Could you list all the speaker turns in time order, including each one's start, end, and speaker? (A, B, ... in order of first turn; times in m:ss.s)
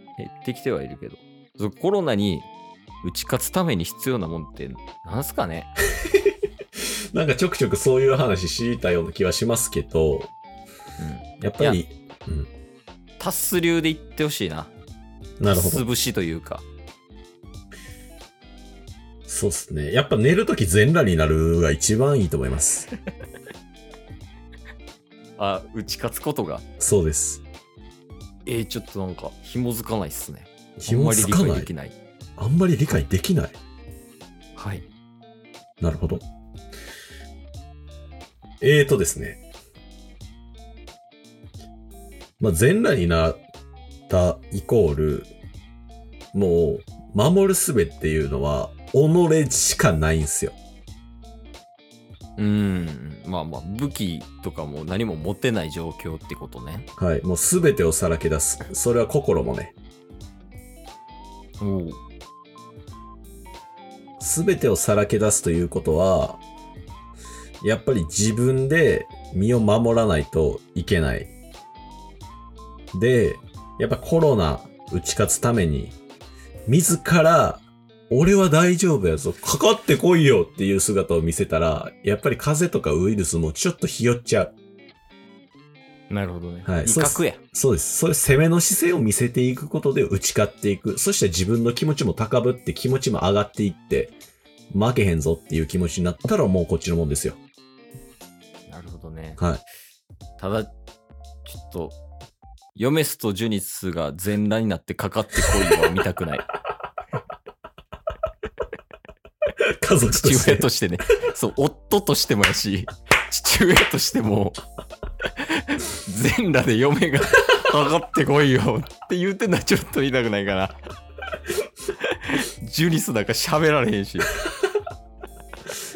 0:00.2-0:02.5 A
0:03.0-0:05.7 A
0:06.0-0:06.3 B
0:07.1-0:10.3 B
0:11.0-0:11.8 A
0:11.4-0:12.5 B
0:13.2-0:14.7 A
0:15.4-0:15.8 B
0:15.5-0:16.6 A
0:19.3-0:22.9 B
0:25.4-0:26.6 A
0:26.8-0:27.4 B
0:28.4-0:32.0 A
0:30.8-0:31.7 B
0:32.4-0:33.6 B
0:34.6-0:34.8 A
0:35.8-0:36.2 B
0:38.6-0:39.4 B
0:42.4-0:43.4 B
0:44.1-0:45.3 B
0:46.3-0:50.6 B
0:52.4-0:56.9 A
0:57.0-0:59.8 B
1:01.6-1:02.0 A
1:04.2-1:06.4 B
1:07.6-1:11.3 B
1:12.9-1:16.0 B
1:16.7-1:24.5 B
1:26.1-1:27.4 A
1:26.6-1:34.1 B
1:34.7-1:37.4 B
1:38.7-1:39.4 A
1:39.4-1:39.6 B
1:40.4-1:40.7 A
1:41.4-1:42.0 A
1:42.7-1:46.5 A
1:49.6-1:50.7 B
1:50.2-1:54.6 A
1:55.4-2:00.8 A
2:01.9-2:04.4 A